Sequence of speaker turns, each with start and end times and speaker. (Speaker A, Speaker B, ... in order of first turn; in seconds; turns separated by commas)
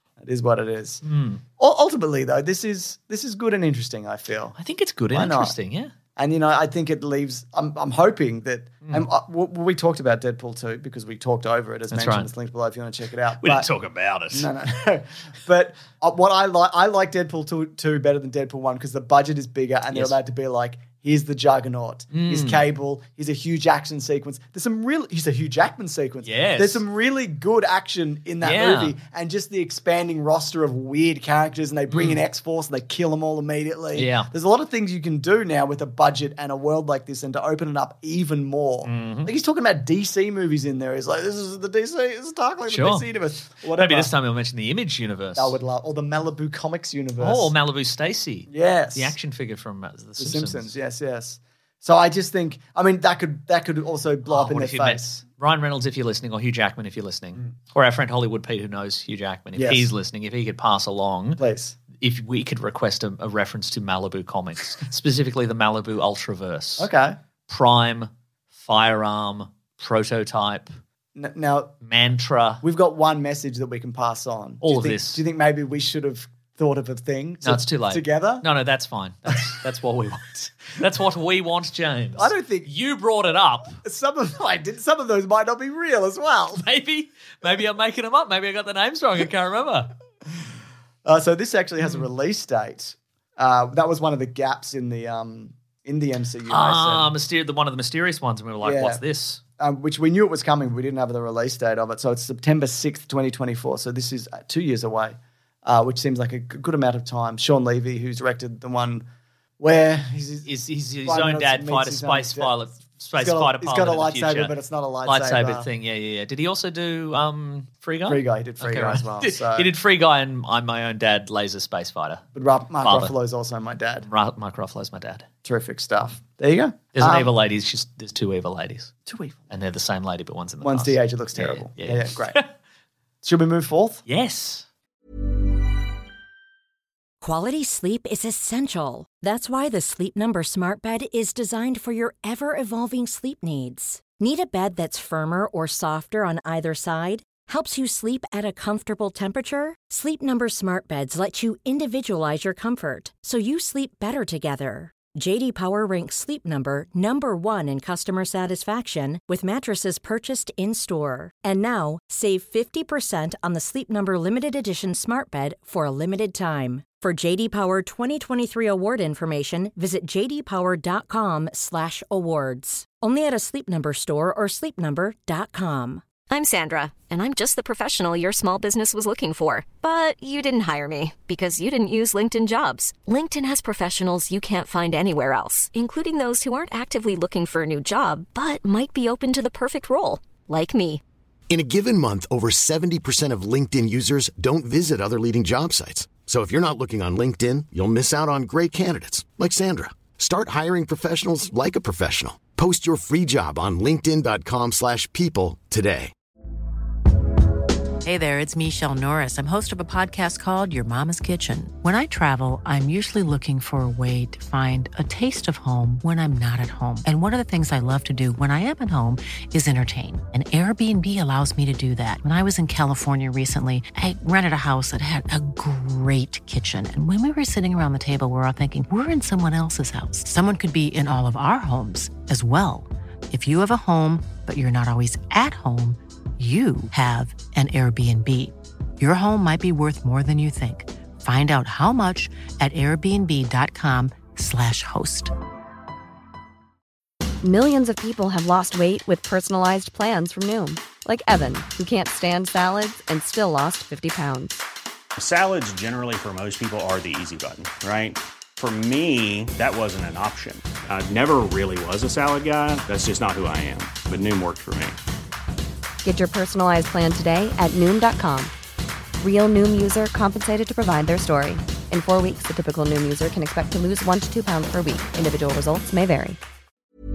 Speaker A: 0.2-1.0, Speaker B: 1.0-1.4, Speaker A: 1.6-4.6, Speaker B: 4.6-5.9, Speaker A: 5.1-5.6, Speaker A: 6.2-13.7, Speaker B: 11.9-12.3, Speaker B: 13.4-14.5, Speaker A: 14.3-44.1, Speaker B: 22.1-22.6, Speaker B: 26.2-26.8, Speaker B: 28.4-28.9, Speaker B: 31.9-32.2, Speaker B: 34.0-34.3, Speaker B: 38.8-39.3, Speaker B: 42.7-43.1, Speaker B: 43.7-45.5, Speaker A: 45.4-47.5, Speaker B: 47.2-50.7, Speaker A: 48.5-49.1, Speaker A: 50.2-55.2, Speaker B: 54.3-61.4, Speaker A: 59.5-59.9, Speaker A: 61.4-61.8, Speaker B: 62.0-66.9, Speaker A: 66.8-67.2, Speaker B: 67.5-70.7, Speaker A: 71.2-71.7, Speaker B: 71.8-72.6, Speaker A: 72.6-78.5, Speaker B: 74.6-75.2, Speaker B: 77.4-83.8, Speaker A: 82.2-82.7, Speaker A: 83.8-86.7, Speaker B: 86.6-89.9, Speaker A: 91.0-97.1, Speaker B: 96.5-99.4, Speaker A: 98.6-99.0, Speaker A: 99.6-109.0, Speaker A: 109.6-110.5, Speaker B: 110.5-114.5, Speaker A: 111.0-112.5, Speaker A: 113.2-115.7, Speaker B: 115.1-122.2, Speaker A: 118.1-119.7, Speaker A: 122.3-124.1, Speaker B: 122.8-123.1, Speaker B: 124.1-125.3, Speaker A: 125.5-127.3, Speaker B: 126.9-128.9, Speaker A: 129.1-129.4, Speaker B: 129.5-132.5, Speaker A: 130.6-132.4, Speaker A: 133.2-134.0, Speaker B: 134.1-134.7, Speaker C: 137.2-176.0, Speaker D: 176.3-191.0, Speaker E: 191.5-206.1, Speaker F: 208.0-245.3, Speaker G: 247.4-254.6, Speaker H: 255.2-265.0, Speaker G: 266.0-268.5, Speaker G: 269.2-276.4